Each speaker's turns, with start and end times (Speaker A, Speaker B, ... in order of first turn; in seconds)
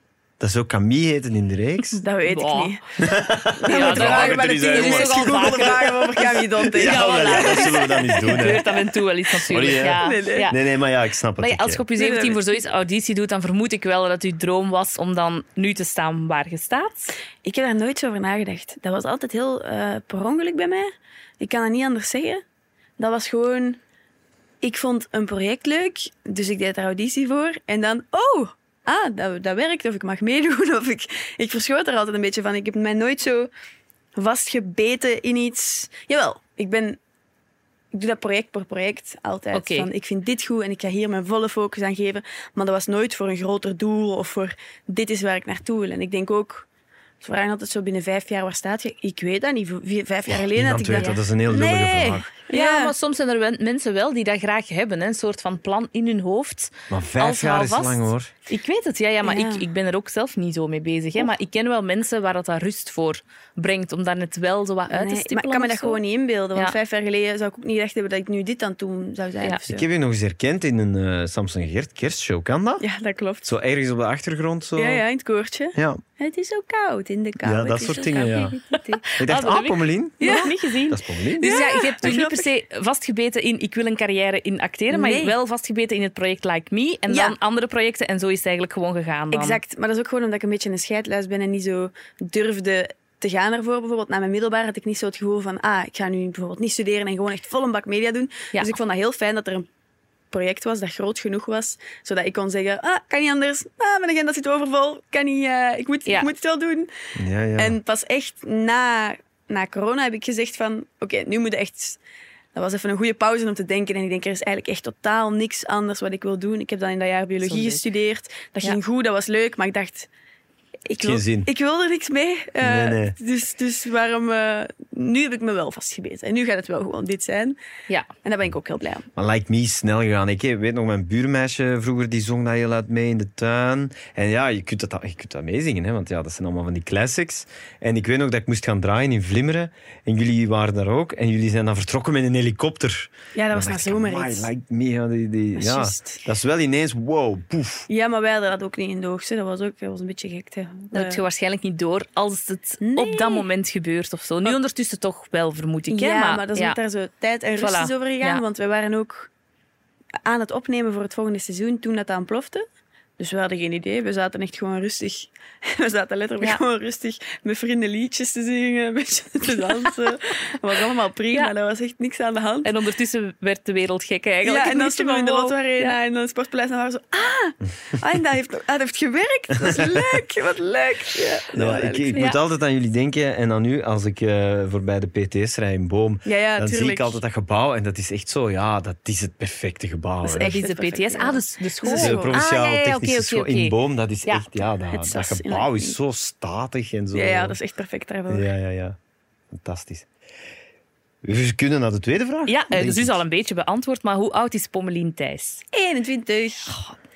Speaker A: 0.4-2.0, 3.0-8.6, 9.4-11.8, 50.3-52.3, 56.9-58.3, 69.7-72.8, 73.5-75.0, 75.7-76.0, 77.4-78.6, 79.2-80.2, 80.9-81.7, 107.2-107.8, 121.0-121.5, 122.6-123.1, 129.2-147.9, 181.5-190.6, 192.0-197.6, 198.3-199.0, 199.5-200.1, 201.2-203.2
Speaker B: 1.9-2.8, 3.4-8.7, 9.6-10.5, 12.0-12.6, 17.4-22.4, 23.0-23.8, 24.6-33.5, 34.1-37.0, 37.9-46.7, 47.2-52.9, 59.2-59.6, 64.9-69.8, 72.8-73.5, 74.8-79.0, 80.2-80.5, 81.4-82.5, 84.9-85.3, 87.1-87.3, 89.3-99.7, 100.3-106.9, 107.6-112.0, 112.5-120.1, 120.9-127.6, 128.2-129.1, 143.3-144.5, 145.6-146.2, 147.9-151.2, 152.8-153.4, 155.9-159.3, 160.2-162.6, 163.2-172.7, 174.4-182.2, 186.2-187.2, 190.2-192.4, 194.9-195.9, 197.1-198.5, 205.7-206.9
Speaker C: 2.3-2.8, 3.7-6.2, 6.7-10.6, 11.4-17.1, 39.5-39.9, 52.5-66.0, 78.7-89.6, 117.4-117.8, 150.9-156.8, 157.6-158.4, 172.6-176.0, 190.4-193.7, 202.5-205.6